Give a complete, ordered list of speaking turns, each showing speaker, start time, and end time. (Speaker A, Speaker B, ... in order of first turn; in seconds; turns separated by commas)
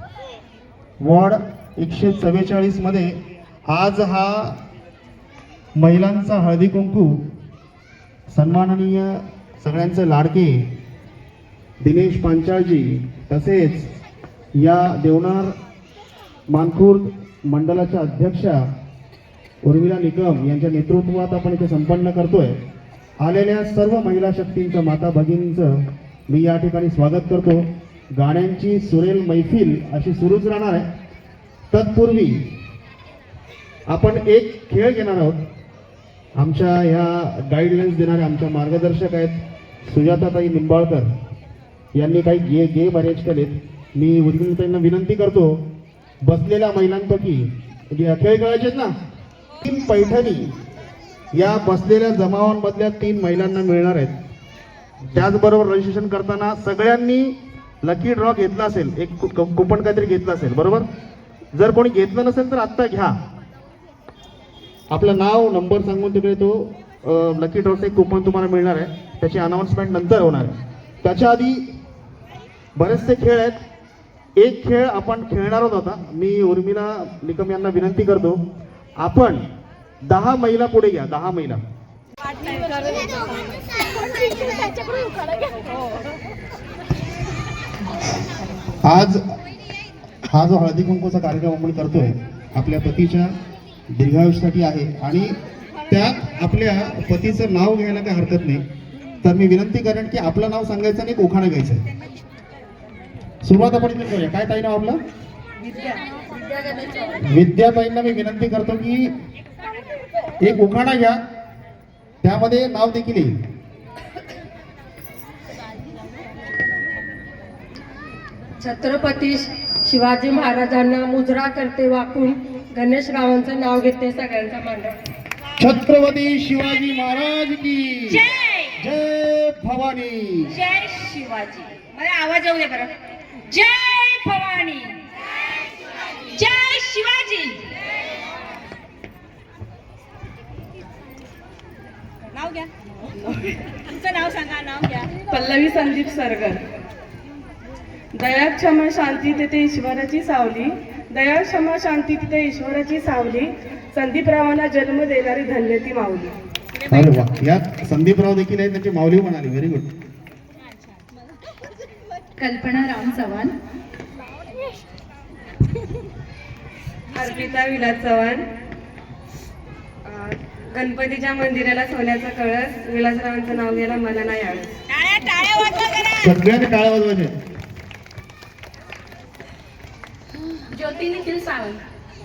Speaker A: 1.0-3.1, Speaker A: 3.7-4.5, Speaker A: 5.8-7.1, Speaker A: 8.3-10.6, Speaker A: 11.8-13.9, Speaker A: 14.6-15.5, Speaker A: 16.5-18.6, Speaker A: 19.6-22.5, Speaker A: 23.2-25.7, Speaker A: 26.3-27.6, Speaker A: 28.1-30.9, Speaker A: 31.7-32.4, Speaker A: 33.9-35.4, Speaker A: 36.4-41.1, Speaker A: 42.0-45.5, Speaker A: 46.2-48.9, Speaker A: 49.6-50.5, Speaker A: 51.3-54.1, Speaker A: 55.1-60.9, Speaker A: 61.5-63.1, Speaker A: 64.9-71.6, Speaker A: 72.8-73.6, Speaker A: 74.4-78.4, Speaker A: 79.0-79.4, Speaker A: 80.1-81.6, Speaker A: 88.8-89.2, Speaker A: 90.3-93.3, Speaker A: 93.9-95.3, Speaker A: 95.9-98.6, Speaker A: 99.2-101.8, Speaker A: 103.4-105.0, Speaker A: 107.2-109.1, Speaker A: 110.4-111.2, Speaker A: 112.2-113.3, Speaker B: 118.6-124.9, Speaker A: 125.6-128.2, Speaker A: 128.8-130.6, Speaker C: 131.5-132.9, Speaker C: 143.9-145.1, Speaker D: 145.2-146.6, Speaker D: 148.1-156.3, Speaker A: 156.9-159.9, Speaker E: 162.4-163.3, Speaker D: 167.1-168.4, Speaker D: 170.1-174.7, Speaker A: 176.0-177.3, Speaker E: 180.7-181.8